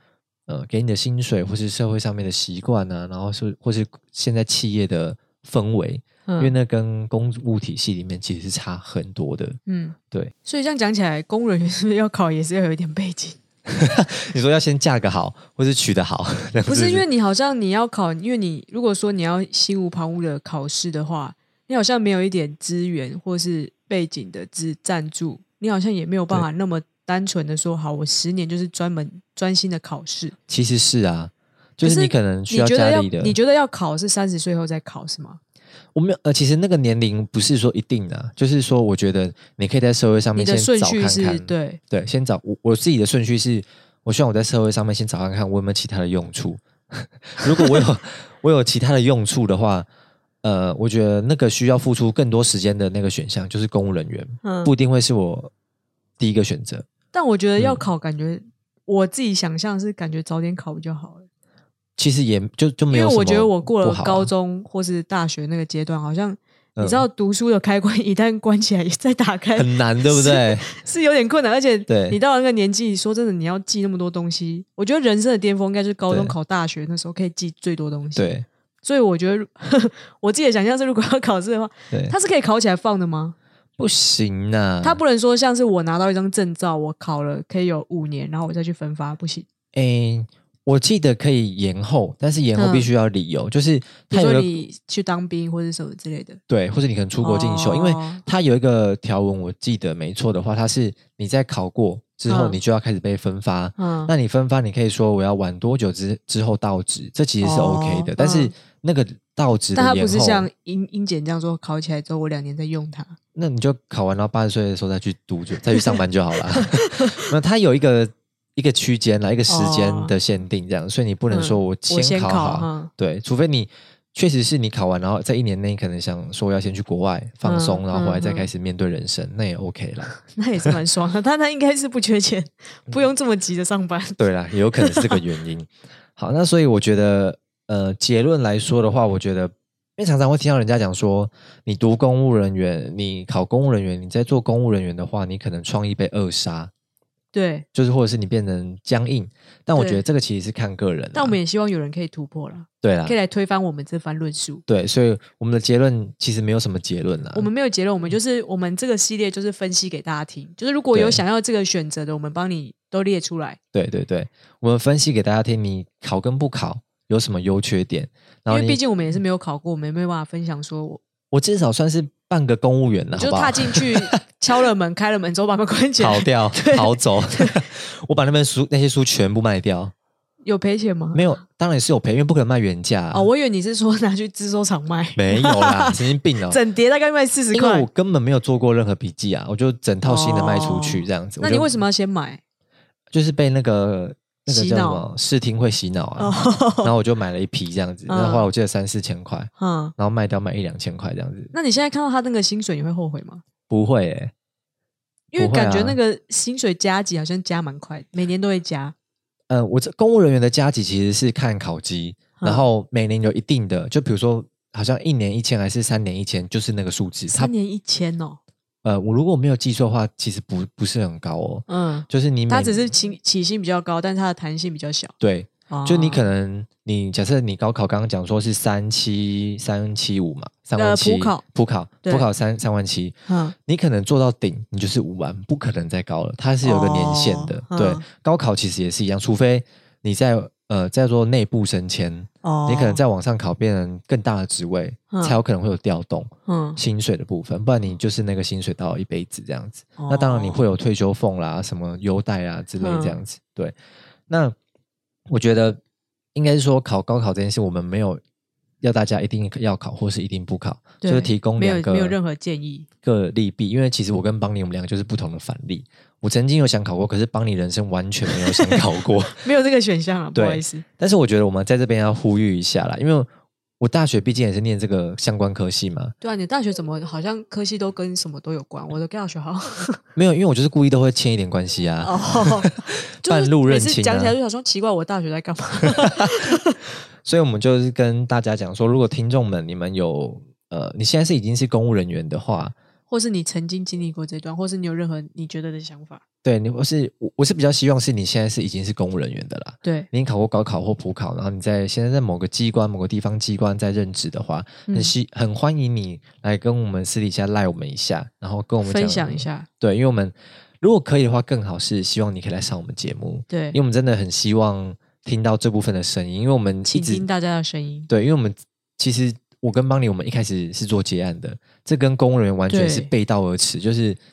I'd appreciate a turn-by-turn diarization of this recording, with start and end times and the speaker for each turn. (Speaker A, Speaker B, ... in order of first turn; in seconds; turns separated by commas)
Speaker A: 0.5-9.6, Speaker B: 6.2-6.5, Speaker B: 9.7-13.4, Speaker A: 13.7-17.0, Speaker B: 16.6-30.3, Speaker A: 30.5-33.4, Speaker B: 31.8-35.4, Speaker A: 35.9-49.9, Speaker B: 40.3-41.8, Speaker A: 50.4-55.5, Speaker B: 54.4-54.7, Speaker A: 56.2-56.9, Speaker B: 57.1-61.3, Speaker A: 57.6-57.8, Speaker A: 62.0-64.3, Speaker B: 62.9-83.3, Speaker A: 66.8-67.0, Speaker A: 69.5-70.7, Speaker A: 71.9-72.2, Speaker A: 76.1-76.3, Speaker A: 78.2-78.5, Speaker A: 81.9-82.2, Speaker A: 83.8-85.0, Speaker B: 84.8-89.5, Speaker A: 89.7-94.5, Speaker B: 92.5-92.9, Speaker B: 94.1-96.4, Speaker A: 96.5-110.5, Speaker B: 97.2-98.2, Speaker B: 102.3-102.6, Speaker B: 103.8-104.1, Speaker B: 107.4-108.5, Speaker B: 109.7-113.2, Speaker A: 113.3-130.1, Speaker B: 115.7-116.0, Speaker B: 116.5-117.2, Speaker B: 119.5-120.1, Speaker B: 121.3-122.9, Speaker B: 127.4-128.5, Speaker B: 130.1-134.2, Speaker A: 134.2-146.7, Speaker B: 134.8-135.2, Speaker B: 147.3-147.7, Speaker A: 147.7-151.3, Speaker B: 149.8-150.0, Speaker B: 151.1-154.6, Speaker A: 152.8-153.2, Speaker A: 154.7-157.5, Speaker B: 157.3-163.6, Speaker A: 160.9-161.2, Speaker A: 163.7-168.8, Speaker B: 168.5-171.0, Speaker A: 171.3-174.2, Speaker B: 173.1-177.6, Speaker A: 176.0-179.9, Speaker B: 180.4-181.2, Speaker A: 181.1-183.3, Speaker B: 183.1-187.9, Speaker A: 185.1-186.6, Speaker A: 187.5-191.8, Speaker B: 190.0-192.4, Speaker A: 193.1-201.5, Speaker B: 194.5-195.0, Speaker B: 196.2-196.9, Speaker B: 198.1-198.5, Speaker B: 199.6-199.9, Speaker B: 201.5-203.4, Speaker A: 203.7-204.3, Speaker B: 205.3-208.9, Speaker A: 205.3-206.0, Speaker A: 209.5-217.5, Speaker B: 212.4-212.6, Speaker B: 217.3-218.4, Speaker A: 218.8-222.8, Speaker B: 221.7-225.1, Speaker A: 225.2-253.7, Speaker B: 225.7-226.2, Speaker B: 230.8-231.4, Speaker B: 233.3-233.5, Speaker B: 236.6-238.0, Speaker B: 242.4-243.0, Speaker B: 245.1-245.3, Speaker B: 246.5-246.8, Speaker B: 250.0-250.6, Speaker B: 252.8-253.2, Speaker A: 254.3-254.5, Speaker A: 255.3-255.8, Speaker A: 256.3-258.2, Speaker A: 258.8-262.1, Speaker B: 261.0-262.9, Speaker A: 263.0-269.5, Speaker B: 268.3-270.8, Speaker A: 270.3-273.3, Speaker A: 273.8-276.1, Speaker B: 276.2-280.0, Speaker A: 280.1-284.4, Speaker B: 282.0-286.8, Speaker A: 285.9-286.4, Speaker A: 287.2-292.7, Speaker B: 293.1-296.2, Speaker A: 296.4-317.2, Speaker B: 299.8-300.1, Speaker B: 304.9-305.1, Speaker B: 308.8-309.7, Speaker B: 313.5-313.8, Speaker B: 316.9-318.1, Speaker A: 318.1-324.2, Speaker B: 322.7-323.1